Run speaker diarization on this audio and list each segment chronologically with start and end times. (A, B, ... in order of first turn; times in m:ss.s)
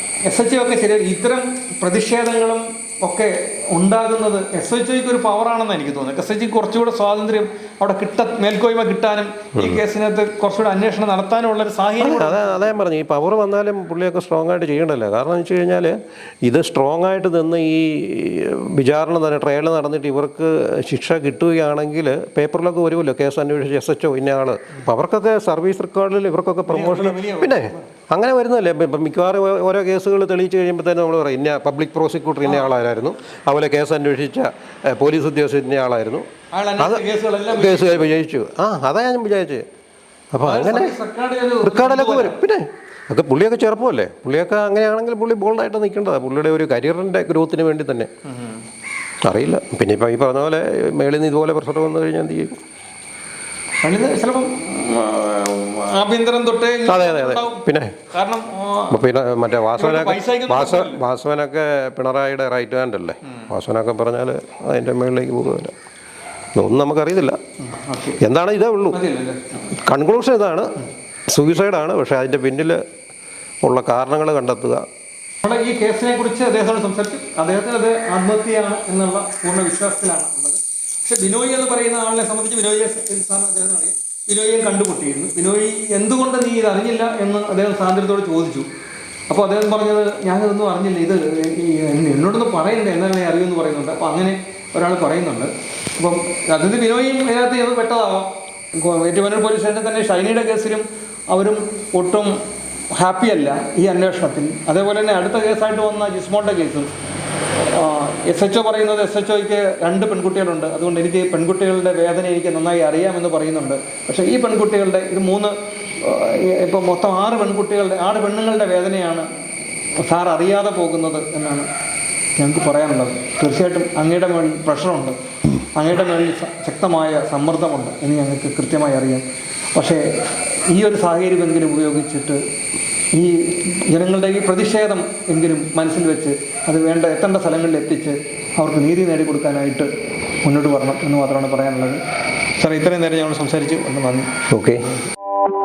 0:00.2-0:12.7 A
0:09.6-0:09.8 B
0:12.0-0:36.3 B
0:26.7-0:27.9 A
0:32.4-0:32.7 A
0:36.5-0:38.1 A
0:36.8-0:39.6 B
0:40.3-0:41.0 B
0:40.4-0:42.4 A
0:41.6-0:48.1 B
0:48.3-0:48.6 A
0:49.2-0:52.5 B
0:53.8-0:59.0 A
0:56.9-0:58.0 B
0:58.9-1:05.8 B
0:59.8-1:01.0 A
1:06.6-1:07.4 B
1:07.6-1:08.2 A
1:08.2-1:09.0 B
1:08.9-1:09.6 A
1:09.7-1:12.8 B
1:13.6-1:14.8 B
1:15.4-1:28.7 A
1:29.3-1:42.4 A
1:42.9-1:46.9 A
1:47.5-1:59.3 A
2:00.0-2:01.7 A
2:02.4-2:05.2 A
2:05.8-2:12.4 A
2:13.1-2:19.9 A
2:20.4-2:22.0 A
2:22.6-2:24.3 A
2:24.5-2:24.8 B